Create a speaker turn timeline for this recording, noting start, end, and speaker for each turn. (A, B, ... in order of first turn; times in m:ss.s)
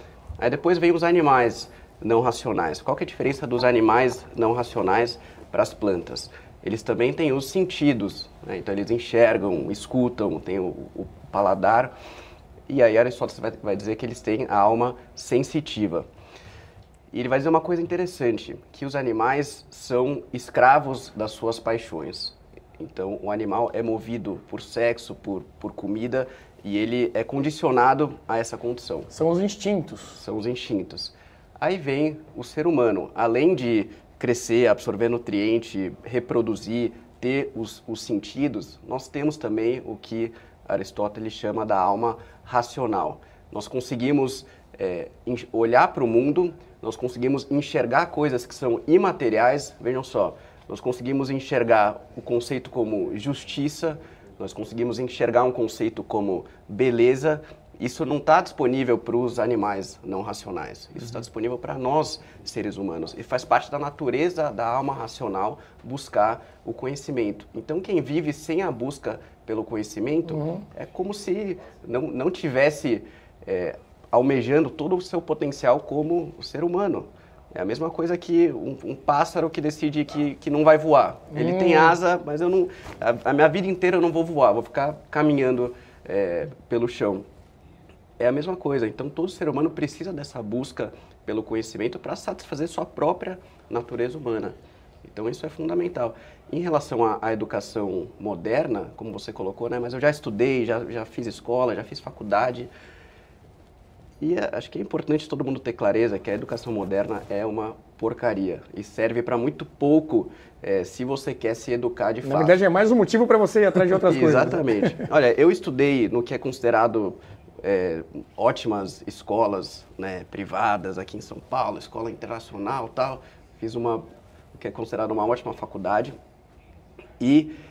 0:00.4-0:12.0 A
0:12.7-0:16.1 A
0:17.1-0:29.1 A
0:29.1-0:30.2 B
0:30.2-1:27.2 A
1:10.3-1:10.6 B
1:21.3-1:22.0 B
1:28.2-1:42.7 A
1:44.2-1:52.6 A
1:52.2-1:55.0 B
1:54.0-2:06.1 A
2:07.2-2:07.5 A